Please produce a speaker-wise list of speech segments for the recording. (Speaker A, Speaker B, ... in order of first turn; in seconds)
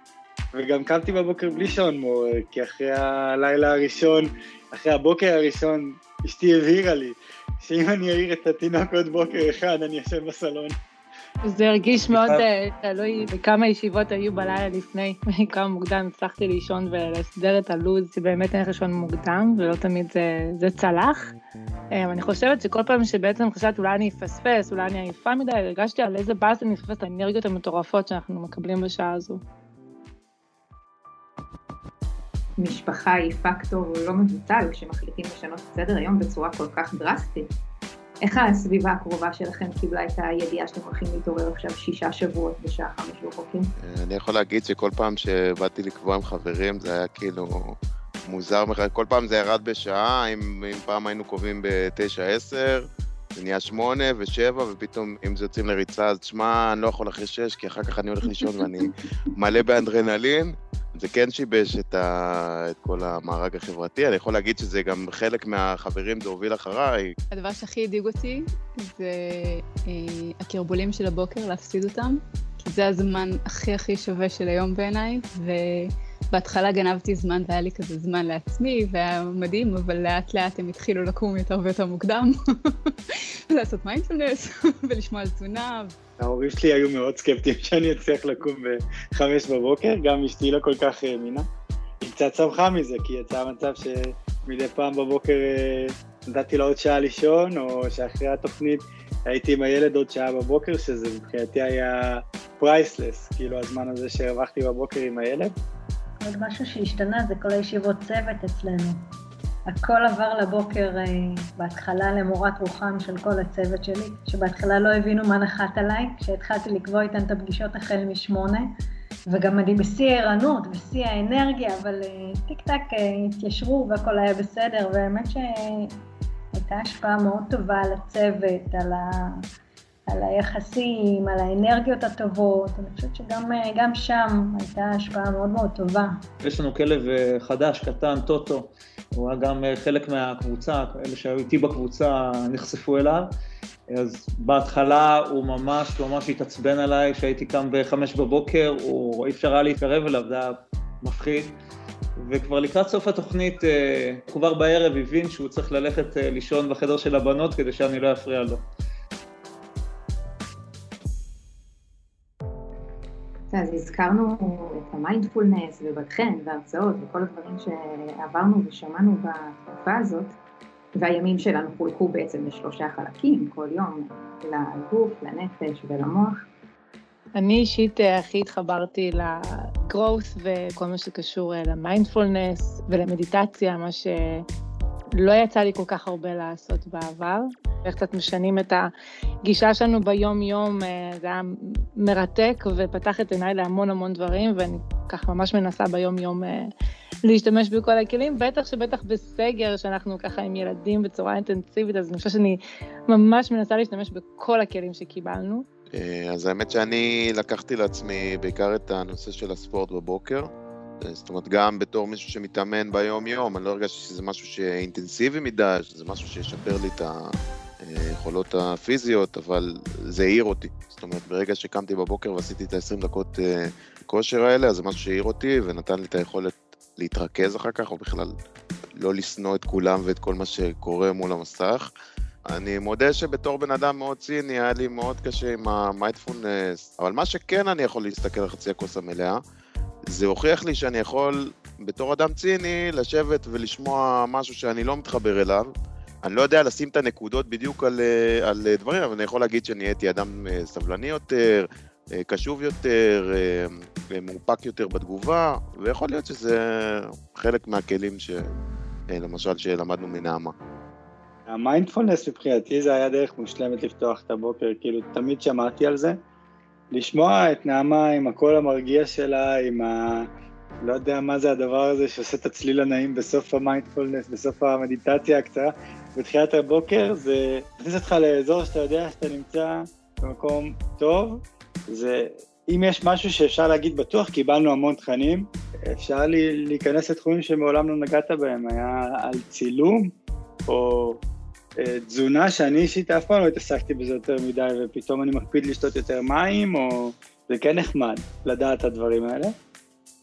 Speaker A: 0.5-10.8, 86.2-91.5, 92.0-105.5, 261.5-266.2, 266.9-270.3, 270.8-290.1, 290.7-291.2, 291.8-299.5
Speaker B: 11.4-21.3, 21.9-29.4, 177.3-184.4, 185.2-188.9, 189.4-196.7, 197.2-205.7
Speaker C: 12.1-12.4, 136.4-143.3, 143.9-151.6, 152.2-158.6
Speaker D: 32.6-37.5, 38.2-43.7, 163.5-170.4, 170.9-176.4
Speaker E: 43.8-67.1, 205.9-228.3, 228.9-231.9, 232.5-239.4, 240.1-245.7, 246.2-258.5, 259.1-260.5
Speaker F: 67.3-85.9
Speaker G: 106.2-109.0, 109.7-118.7, 119.3-126.0, 126.5-129.4, 130.1-136.2